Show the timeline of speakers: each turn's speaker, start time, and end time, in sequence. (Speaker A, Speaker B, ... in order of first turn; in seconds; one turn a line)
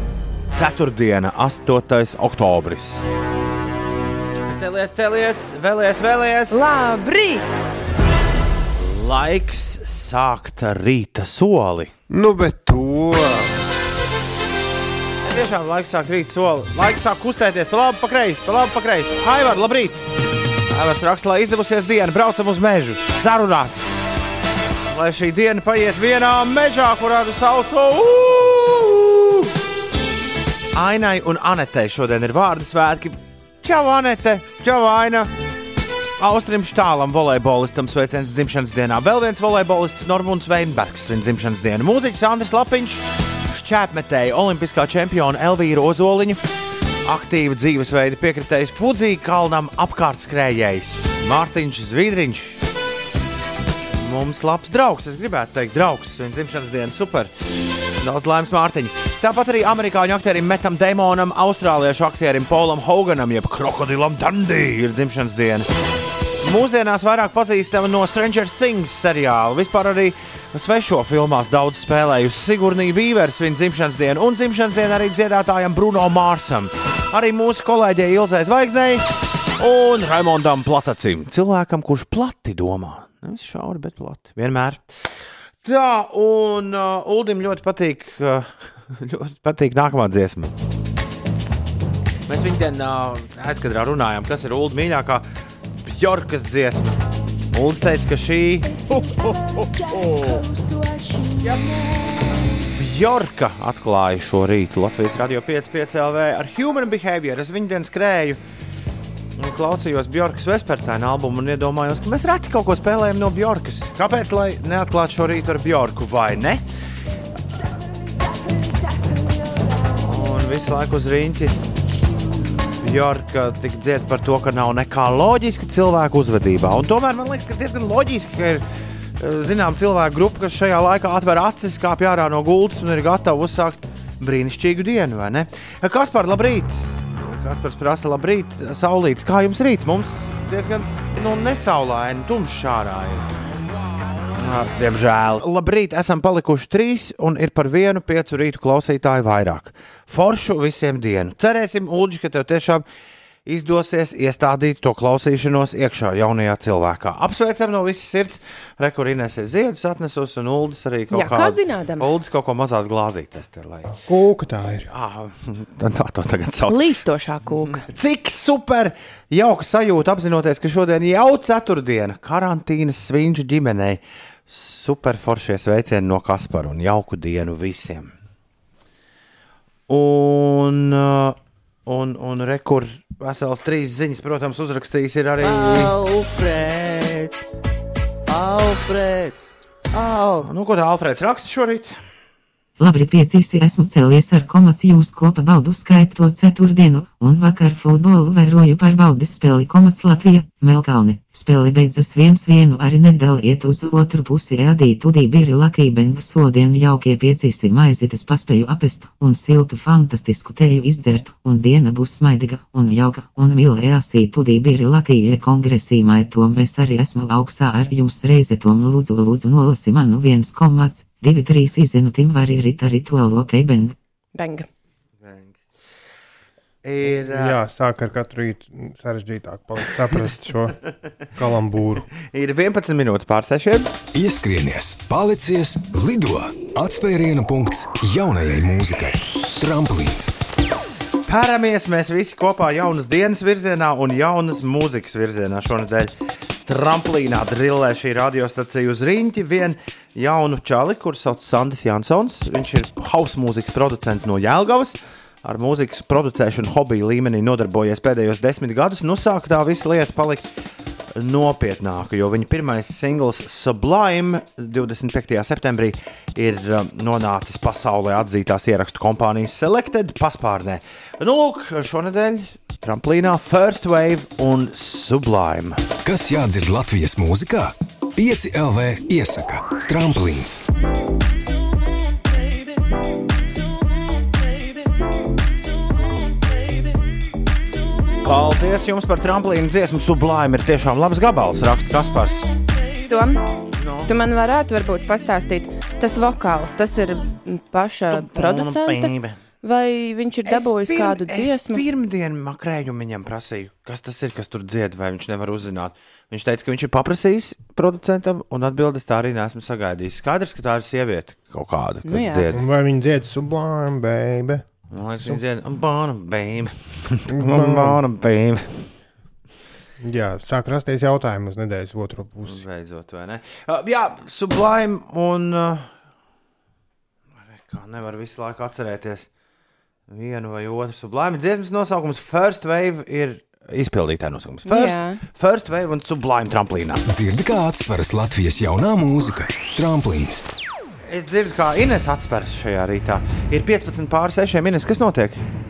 Speaker A: 0.5-3.0
Speaker A: 4.5-6.7
Speaker B: 6.5-7.6
Speaker A: 8.8-11.9
Speaker C: 12.1-13.5
Speaker A: 15.2-20.1
Speaker A: 20.7-23.9
Speaker A: 24.9-29.5
Speaker A: 30.7-35.3
Speaker A: 36.2-46.4
Speaker A: 47.1-52.6
Speaker A: 53.9-57.3
Speaker A: 58.0-65.7
Speaker A: 66.4-79.1
Speaker A: 79.6-85.1
Speaker A: 85.6-90.5
Speaker A: 92.3-95.3
Speaker A: 95.8-97.0
Speaker A: 97.5-98.8
Speaker A: 102.7-108.4
Speaker A: 109.4-116.6
Speaker A: 120.0-121.6
Speaker A: 122.6-128.7
Speaker A: 129.2-143.4
Speaker A: 144.3-152.8
Speaker A: 153.5-164.0
Speaker B: 161.1-162.1
Speaker C: 164.1-164.9
Speaker A: 164.9-166.8
Speaker B: 166.7-167.9
Speaker A: 167.8-178.1
Speaker A: 179.9-187.5
Speaker A: 188.3-192.0
Speaker D: 192.8-223.9
Speaker B: 224.3-224.7
Speaker A: 225.2-225.6
Speaker A: 226.8-227.6
Speaker C: 227.3-230.8
Speaker C: 231.3-232.1
Speaker A: 232.2-233.9
Speaker E: 234.1-240.4
Speaker A: 241.3-246.1
Speaker A: 246.7-260.5
Speaker A: 261.1-275.8
Speaker E: 276.0-280.7
Speaker A: 288.2-292.5
Speaker B: 293.1-293.4
Speaker A: 293.8-294.1
Speaker B: 294.1-301.8
Speaker A: 298.1-299.4
Speaker A: 300.5-312.6
Speaker B: 312.1-312.4
Speaker C: 312.5-314.7
Speaker A: 314.9-318.9
Speaker C: 317.3-318.0
Speaker C: 320.0-322.6
Speaker A: 322.4-325.9
Speaker A: 327.4-329.3
Speaker A: 330.1-337.0
Speaker B: 334.7-335.2
Speaker E: 337.1-340.5
Speaker A: 341.1-345.4